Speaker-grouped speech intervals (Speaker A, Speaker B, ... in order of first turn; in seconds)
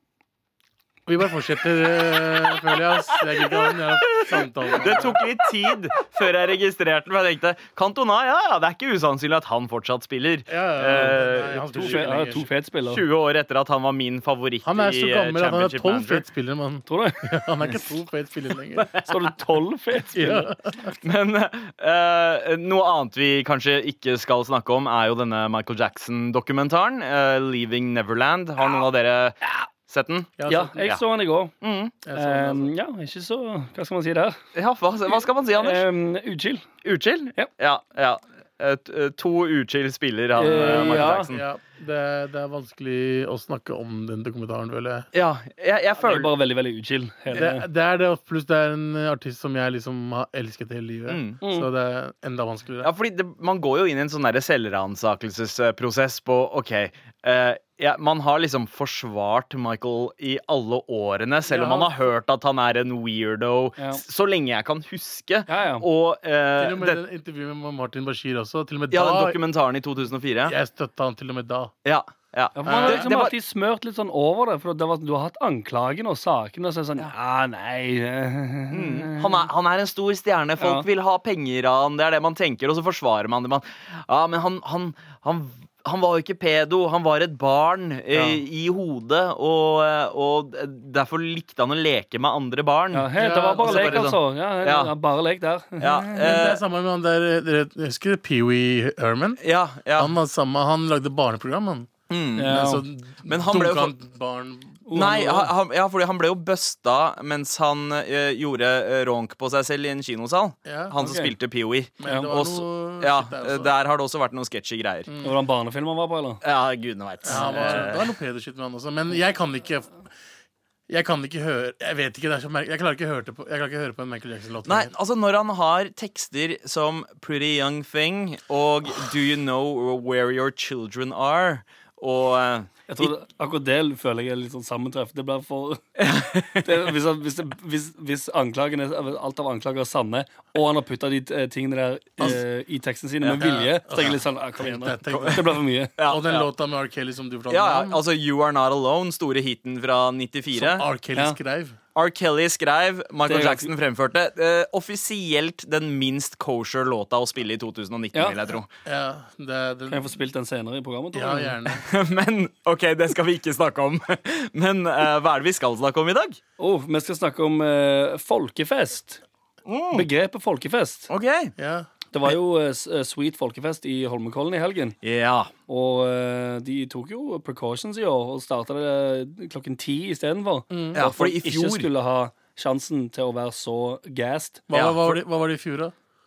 Speaker A: 1.1-5.2, 10.5-12.5, 14.6-18.9, 20.1-20.9, 30.4-30.8, 32.0-32.7, 40.5-45.1, 47.3-52.9, 61.5-61.9, 66.6-69.4, 70.4-71.7, 72.7-73.1, 93.2-94.1, 96.1-99.4, 100.0-101.9, 102.5-104.8, 110.7-111.0, 112.0-113.7, 115.1-115.3, 117.2-119.9, 120.9-124.9, 143.3-148.0, 150.5-151.8, 158.8-160.1, 161.1-161.8, 171.6-171.9, 180.7-181.0, 184.7-185.9
Speaker B: 2.8-12.1, 12.8-16.2, 18.8-19.1, 21.0-30.3, 31.6-31.9, 34.5-35.8, 36.8-41.4, 45.1-46.3, 51.1-51.4, 52.8-67.0, 68.9-70.5, 71.8-73.3, 78.7-94.9, 95.8-96.6, 99.4-100.1, 102.1-102.7, 103.2-103.9, 104.9-115.1, 116.4-118.1, 124.7-133.1, 136.0-136.7, 145.1-145.4, 146.0-146.5, 147.5-150.8, 151.9-158.7, 161.8-166.4, 169.7-170.1, 171.1-171.5, 175.0-175.5, 180.9-181.9, 184.7-185.1
Speaker C: 11.7-13.0, 16.9-17.3, 19.0-20.5, 30.5-31.5, 32.1-34.4, 35.1-36.6, 40.4-41.3, 46.0-47.6, 51.4-51.7, 65.5-65.8, 72.5-79.4, 80.6-80.8, 88.1-88.4, 92.9-96.2, 102.3-102.8, 104.8-105.5, 111.0-111.3, 112.0-112.3, 115.2-116.4, 117.3-117.8, 132.9-135.8, 136.6-145.9, 153.3-153.7, 159.9-161.6, 166.6-169.2, 169.9-171.1, 172.1-174.9, 175.7-184.7